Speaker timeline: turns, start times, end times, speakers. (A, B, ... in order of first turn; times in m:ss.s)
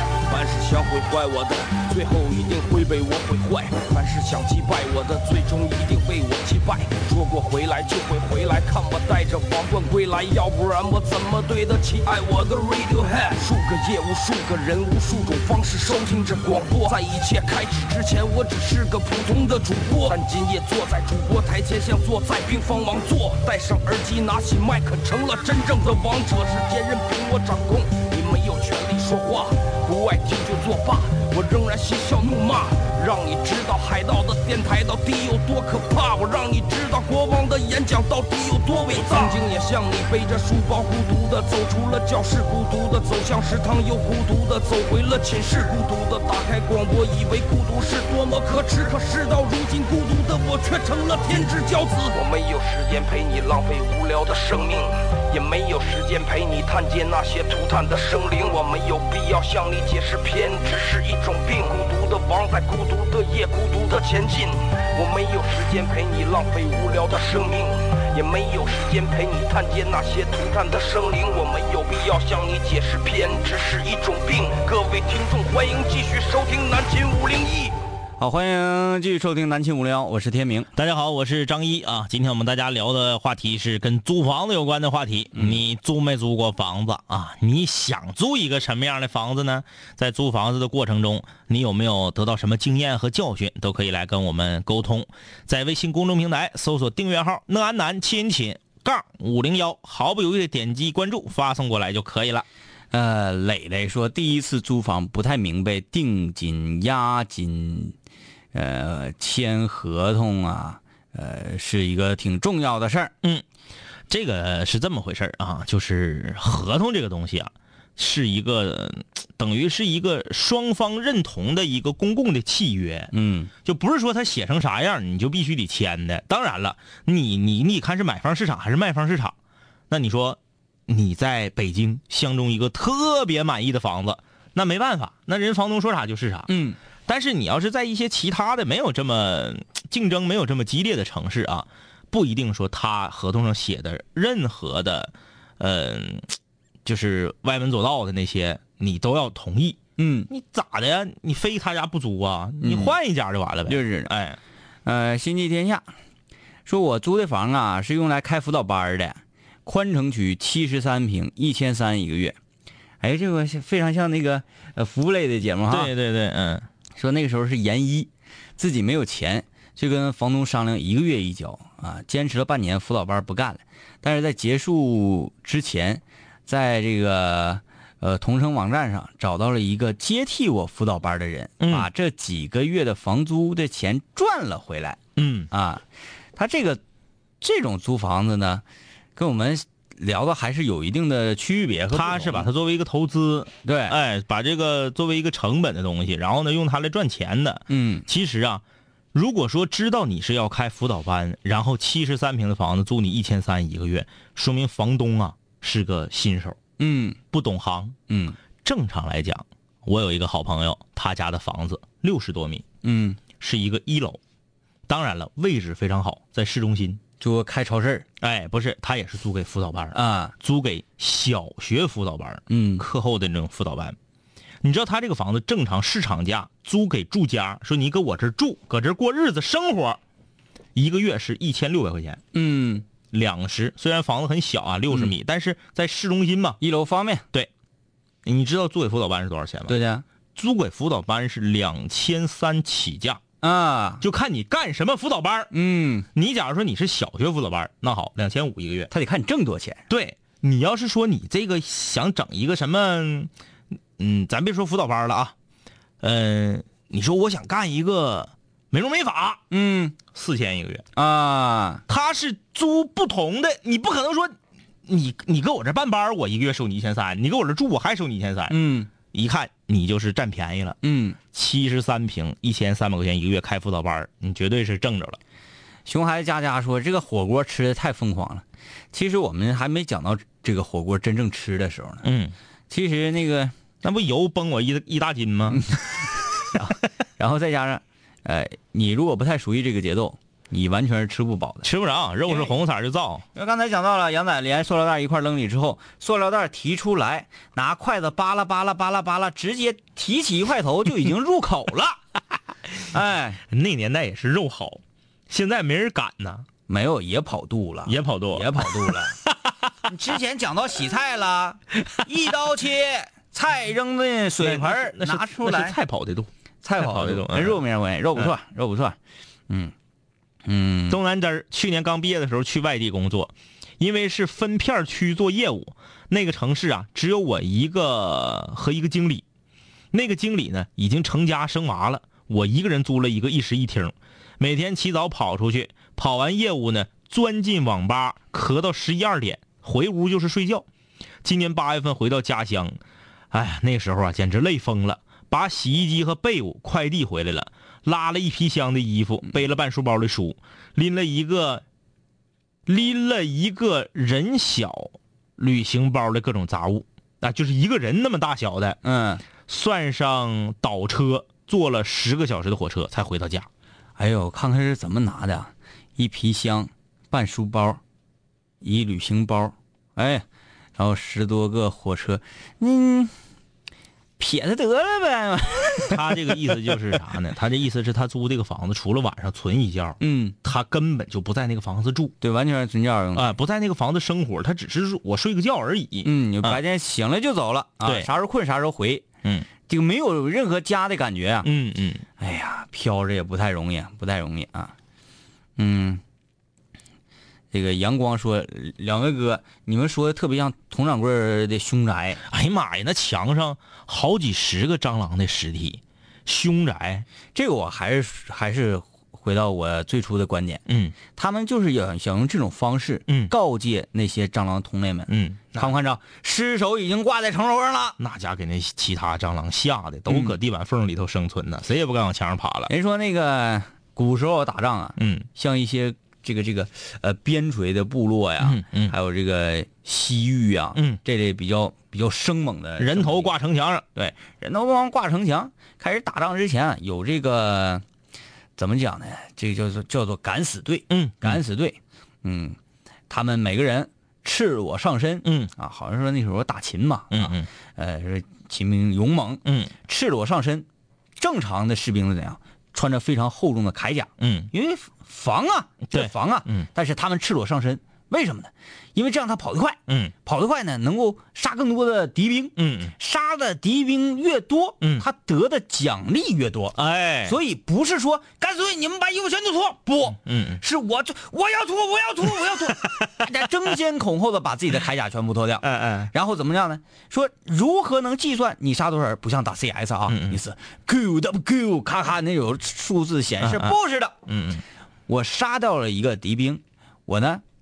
0:00.2-1:17.8 A
1:18.2-1:20.7 B
1:20.8-1:42.4 C
1:42.9-1:48.0 B
1:48.5-1:53.1 B
1:54.1-2:03.1 C
2:03.1-2:03.5 B
2:03.6-2:09.4 C
2:09.9-2:16.5 C
2:16.5-2:16.8 B
2:17.1-2:29.8 C
2:30.0-2:30.3 B
2:30.3-2:34.4 C
2:32.6-2:33.0 B
2:33.7-2:34.1 B
2:34.9-2:35.9 B
2:36.7-2:42.4 B
2:43.0-2:45.9 B
2:45.7-2:46.7 C
2:47.0-3:05.0 B
3:01.6-3:01.9 C
3:05.2-3:05.5 C
3:05.5-3:05.8 B
3:06.4-3:06.8 B
3:07.4-3:08.6 B
3:09.2-3:12.5 B
3:11.9-3:18.6 C
3:13.6-3:14.0 B
3:17.7-3:18.1 B
3:19.1-3:26.6 C
3:26.8-3:27.2 B
3:27.3-3:28.0 C
3:28.1-3:28.4 B
3:28.6-3:32.6 C
3:32.8-3:33.2 B
3:33.4-3:34.2 C
3:34.9-3:37.0 C
3:37.2-3:38.1 B
3:38.2-3:44.0 C
3:39.9-3:40.3 B
3:42.5-3:42.8 B
3:44.6-3:50.0 C
3:50.8-3:52.2 C
3:52.3-3:52.9 B
3:53.1-3:56.6 C
3:56.6-3:57.2 B
3:58.2-3:59.8 C
3:59.7-4:00.0 B
4:00.4-4:03.2 C
4:03.4-4:04.0 B
4:04.0-4:05.5 C
4:05.5-4:06.1 B
4:06.2-4:08.9 C
4:08.9-4:09.8 B
4:09.9-4:13.3 C
4:14.0-4:15.3 C
4:16.0-4:19.4 C
4:19.5-4:20.0 B
4:20.1-4:20.8 C
4:21.0-4:21.8 B
4:21.9-4:28.6 C
4:28.5-4:28.9 B
4:29.1-4:30.8 C
4:30.8-4:31.2 B
4:31.3-4:35.2 C
4:35.9-4:42.1 B
4:42.0-4:42.3 C
4:42.7-4:43.5 B
4:43.8-4:46.1 C
4:46.5-4:51.7 B
4:51.6-4:53.2 C
4:53.4-5:02.0 B
5:02.9-5:03.4 B
5:03.5-5:06.5 C
5:06.7-5:09.2 B
5:07.9-5:09.0 C
5:09.8-5:15.8 B
5:14.4-5:17.6 C
5:16.6-5:19.0 B
5:19.5-5:19.7 B
5:20.5-5:21.0 B
5:20.9-5:29.2 C
5:29.9-5:40.7 C
5:41.2-5:42.8 C
5:43.3-5:51.6 C
5:52.7-5:58.8 C
5:58.8-5:59.2 B
5:59.4-6:03.5 C
6:04.0-6:07.8 B
6:08.6-6:10.3 B
6:10.8-6:13.1 B
6:14.2-6:16.7 B
6:15.9-6:22.1 C
6:20.0-6:20.4 B
6:22.2-6:23.2 B
6:23.1-6:26.6 C
6:26.0-6:29.1 B
6:27.8-6:28.1 C
6:29.7-6:31.5 B
6:31.4-6:32.0 C
6:32.2-6:34.7 B
6:35.6-6:36.0 B
6:37.5-6:42.2 B
6:42.3-6:47.1 C
6:47.4-6:58.0 B
6:50.7-6:51.0 C
6:55.1-6:55.7 C
6:58.0-7:02.7 C
7:00.1-7:00.3 B
7:02.7-7:13.3 B
7:05.0-7:05.3 C
7:08.4-7:09.0 C
7:10.8-7:11.0 C
7:12.8-7:13.9 C
7:14.0-7:17.8 B
7:18.6-7:22.6 B
7:20.9-7:21.4 C
7:23.1-8:04.2 B
7:25.2-7:25.5 C
7:27.1-7:27.5 C
7:29.4-7:29.7 C
7:34.2-7:34.5 C
7:35.9-7:36.7 C
7:39.9-7:40.1 C
7:42.6-7:42.9 C
7:46.8-7:47.4 C
7:50.2-7:50.6 C
7:52.4-7:53.1 C
7:55.6-7:56.1 C
8:00.1-8:00.4 C
8:03.4-8:03.8 C
8:04.3-8:04.6 C
8:05.1-8:07.4 B